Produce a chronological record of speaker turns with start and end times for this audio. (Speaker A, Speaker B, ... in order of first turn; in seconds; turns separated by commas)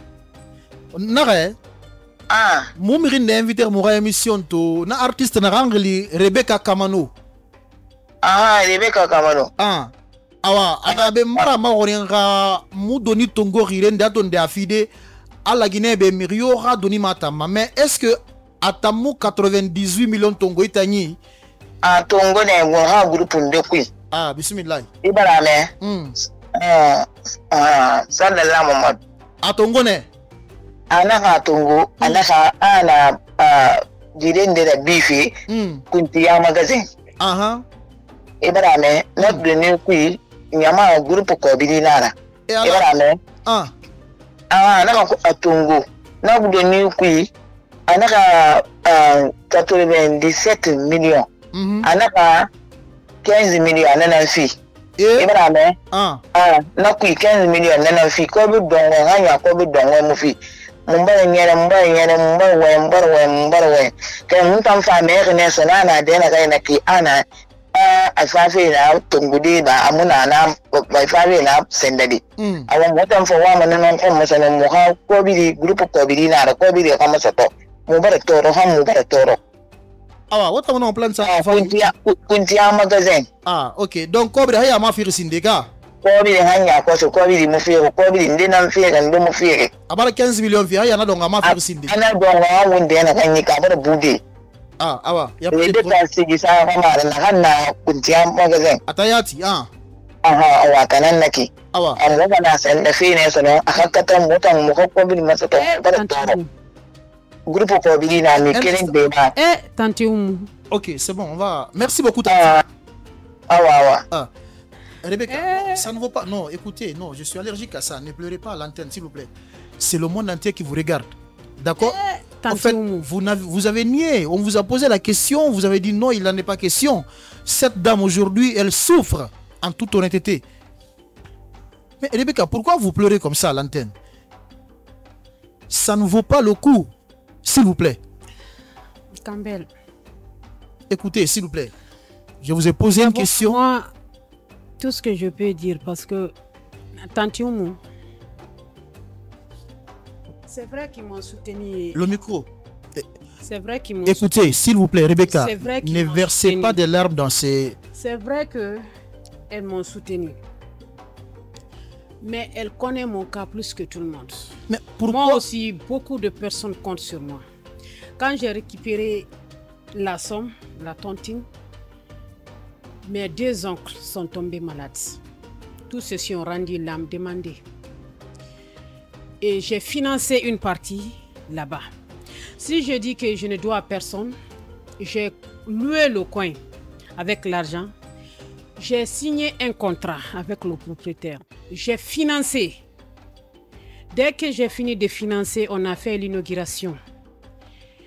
Speaker A: 0.9-1.6, Speaker B: 2.3-2.7, Speaker A: 2.8-7.1, Speaker B: 8.2-9.5, Speaker A: 9.6-9.9, Speaker A: 10.4-14.9, Speaker B: 10.9-11.5, Speaker A: 15.5-21.2, Speaker B: 21.8-23.9, Speaker A: 24.1-24.9, Speaker B: 25.0-25.7, Speaker A: 25.8-26.1, Speaker B: 26.6-29.0, Speaker A: 29.4-30.1, Speaker B: 30.9-35.3, Speaker A: 35.5-35.8, Speaker B: 35.9-36.8, Speaker A: 37.2-37.6, Speaker B: 38.4-43.2, Speaker A: 42.5-42.9, Speaker A: 43.5-43.7, Speaker B: 44.5-47.3, Speaker B: 47.9-51.3, Speaker A: 51.5-51.9, Speaker B: 51.8-52.5, Speaker B: 53.2-54.5, Speaker A: 55.0-55.3, Speaker B: 55.2-55.8, Speaker A: 55.9-56.2, Speaker B: 56.4-60.4, Speaker B: 60.9-67.2, Speaker B: 67.7-79.4, Speaker A: 72.4-72.7, Speaker A: 80.3-81.9, Speaker B: 81.2-83.3, Speaker A: 83.5-85.7, Speaker B: 86.0-89.7, Speaker A: 89.9-92.0, Speaker B: 91.5-94.2, Speaker A: 94.8-96.0, Speaker B: 95.5-98.8, Speaker A: 98.9-99.7, Speaker B: 100.2-106.4, Speaker A: 101.7-102.0, Speaker C: 105.8-106.5, Speaker B: 107.5-109.3, Speaker A: 108.5-109.0, Speaker C: 109.4-110.5, Speaker A: 110.7-112.6, Speaker B: 112.3-112.6, Speaker B: 113.5-114.0, Speaker A: 115.0-122.0, Speaker C: 115.3-115.9, Speaker C: 121.8-123.1, Speaker A: 122.5-130.4, Speaker A: 132.0-133.9, Speaker A: 135.7-136.9, Speaker A: 137.4-138.0, Speaker C: 139.2-139.7, Speaker A: 140.9-141.7, Speaker A: 142.4-143.6, Speaker C: 142.9-143.9, Speaker C: 144.8-146.3, Speaker C: 147.0-147.8, Speaker C: 150.5-152.0, Speaker A: 151.9-153.1, Speaker C: 153.4-154.3, Speaker A: 154.1-157.8, Speaker C: 155.3-156.8, Speaker C: 157.9-158.9, Speaker C: 159.5-160.4, Speaker C: 162.2-164.5, Speaker A: 164.7-165.4, Speaker C: 165.1-167.4, Speaker C: 168.2-169.3, Speaker C: 169.9-171.5, Speaker C: 173.0-175.2, Speaker C: 175.9-177.6, Speaker C: 179.4-181.9, Speaker C: 182.6-184.3, Speaker C: 185.0-186.6, Speaker C: 187.2-187.9, Speaker C: 188.8-192.8, Speaker C: 194.1-197.0